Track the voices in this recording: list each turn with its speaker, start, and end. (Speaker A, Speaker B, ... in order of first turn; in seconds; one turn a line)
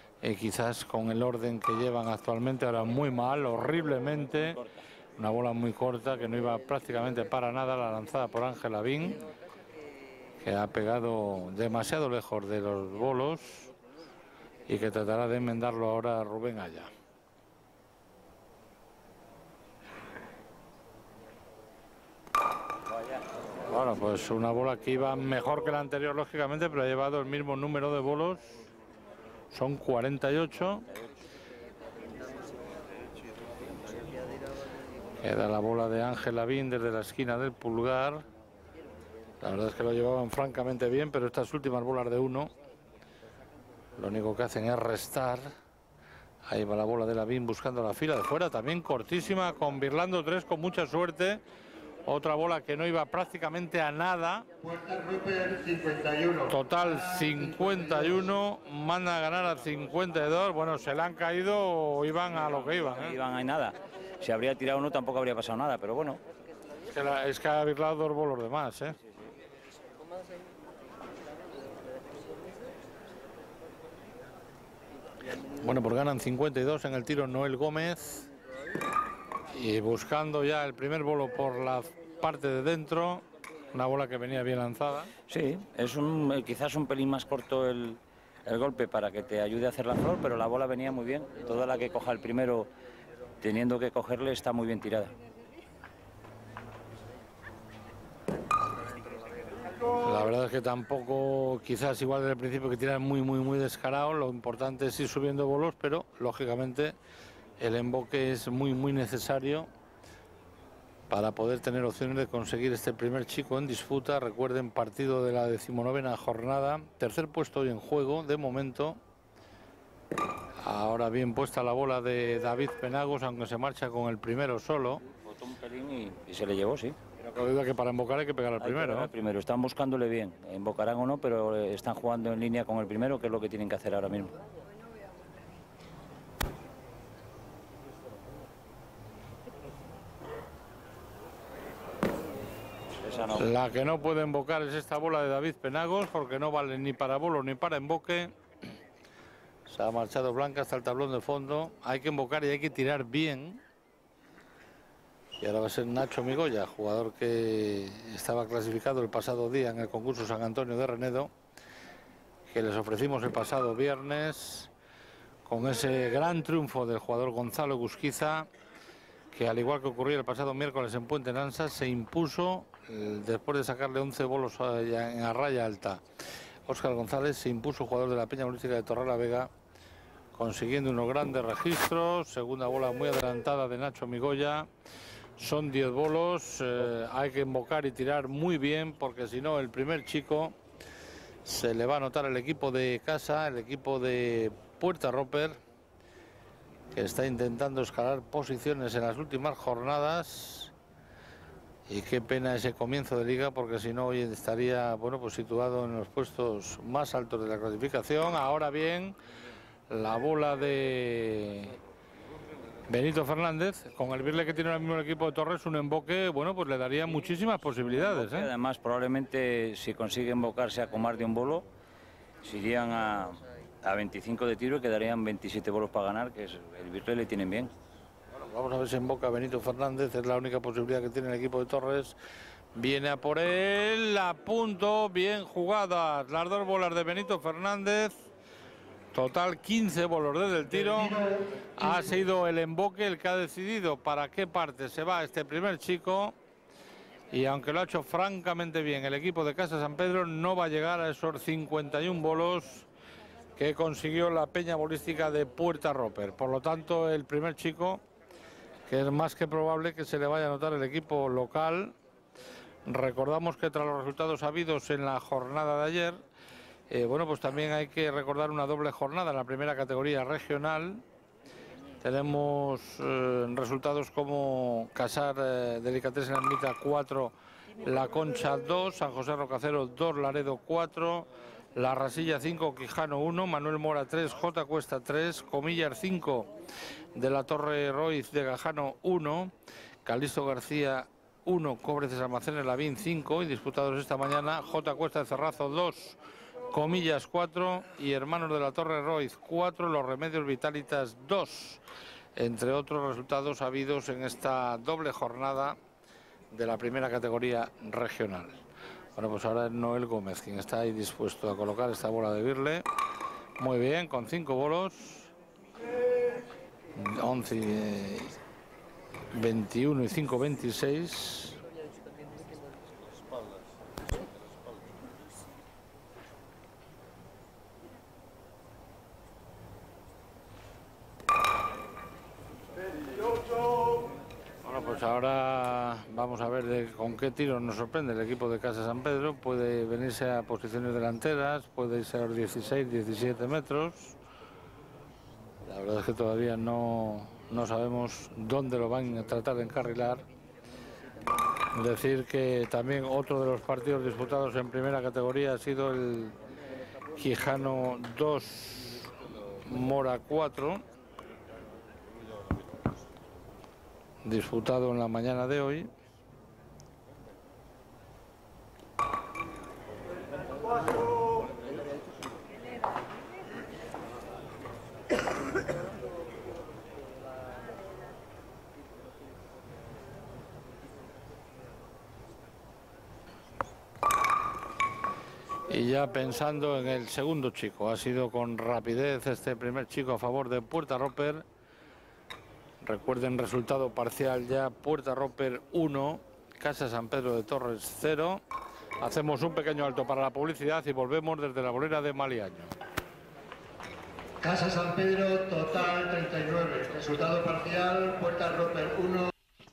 Speaker A: 0.2-4.6
Speaker B: 4.2-4.8
Speaker A: 5.2-9.2
Speaker A: 10.4-13.7
Speaker A: 14.7-16.9
Speaker B: 22.9-23.2
Speaker A: 23.7-28.5
Speaker A: 29.5-30.9
Speaker A: 35.2-38.2
Speaker A: 39.4-42.5
Speaker A: 44.0-45.5
Speaker A: 46.5-51.4
Speaker A: 52.1-54.5
Speaker C: 54.6-58.2
Speaker A: 56.5-63.2
Speaker B: 62.7-66.2
Speaker A: 66.9-69.0
Speaker B: 69.0-69.3
Speaker A: 75.6-78.3
Speaker A: 79.5-85.1
Speaker B: 85.3-92.7
Speaker B: 93.4-95.1
Speaker A: 100.0-107.0
Speaker A: 107.6-109.7
Speaker A: 111.1-119.0
Speaker A: 120.6-125.0
Speaker B: 125.2-127.0
Speaker A: 127.2-129.1
Speaker B: 128.6-134.4
Speaker B: 143.0-143.5
Speaker A: 143.3-148.3
Speaker A: 149.7-153.6
Speaker A: 155.4-161.3
Speaker A: 162.5-164.7
Speaker A: 165.5-168.5
Speaker A: 169.3-176.0
Speaker A: 176.7-179.5
Speaker A: 180.3-184.7
Speaker A: 185.4-190.6
Speaker A: 191.4-195.6
Speaker A: 196.9-200.7
Speaker A: 201.9-209.2
Speaker A: 209.9-211.8
Speaker A: 212.9-218.5
Speaker B: 217.9-221.7
Speaker B: 222.4-227.7
Speaker A: 228.4-232.2
Speaker A: 232.8-238.2
Speaker A: 239.1-241.2
Speaker C: 240.8-242.2
Speaker A: 241.8-246.3
Speaker A: 247.3-252.9
Speaker A: 253.6-258.0
Speaker A: 258.9-261.9
Speaker A: 262.9-266.2
Speaker A: 266.9-271.0
Speaker A: 272.0-286.5
Speaker A: 287.1-289.5
Speaker A: 290.1-296.2
Speaker A: 296.7-301.8
Speaker A: 302.4-305.8
Speaker A: 306.5-308.6
Speaker A: 309.1-312.9
Speaker A: 313.6-315.3
Speaker A: 316.9-318.4
Speaker A: 319.3-321.6
Speaker A: 334.6-344.2
Speaker A: 345.7-350.2
Speaker A: 351.7-356.4
Speaker A: 357.2-359.1
Speaker A: 359.6-360.8
Speaker A: 364.2-365.9
Speaker A: 385.7-391.4
Speaker A: 392.8-398.4
Speaker A: 399.0-402.7
Speaker C: 404.4-409.3